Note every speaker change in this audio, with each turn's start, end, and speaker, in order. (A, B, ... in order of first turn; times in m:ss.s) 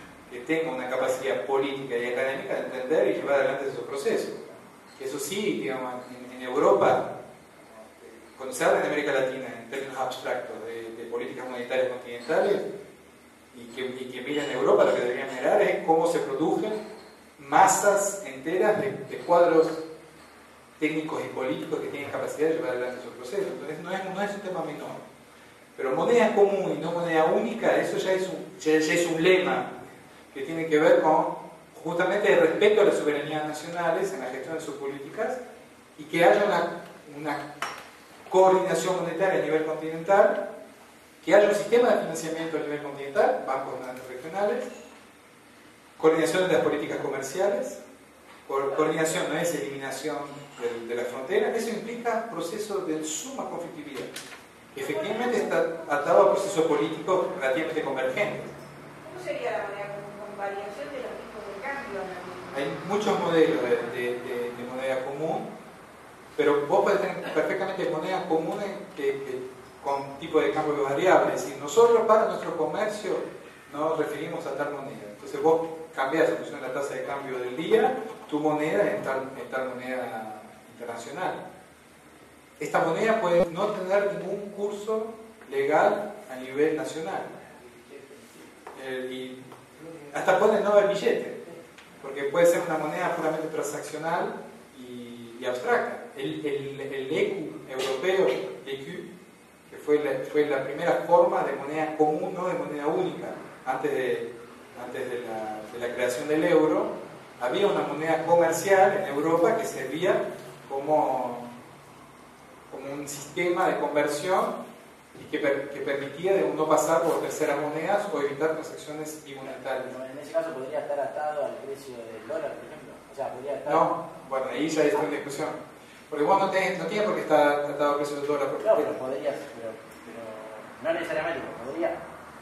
0:00.3-0:04.4 A
0:05.0-0:07.1 A
0:07.7-0:12.7 A
0:13.5-0:16.8 A
0:17.4-0:19.8 A
0:20.8-0:25.0 A
0:25.8-0:29.7 A
0:30.3-0:35.4 A
0:36.0-0:37.4 A
0:38.3-0:40.4 A
0:41.2-0:44.7 A
0:46.0-0:47.8 A
0:48.5-0:54.1 A
0:54.7-0:58.5 A
0:59.0-1:02.5 B
1:02.5-1:05.5 A
1:06.4-1:21.4 A
1:22.6-1:27.3 A
1:28.7-1:29.4 A
1:30.1-1:31.4 A
1:32.0-1:39.0 A
1:39.7-1:51.5 A
1:52.7-1:54.6 A
1:55.2-1:59.9 A
1:59.5-2:03.9 C
2:03.6-2:05.6 A
2:06.1-2:08.9 A
2:08.6-2:12.0 C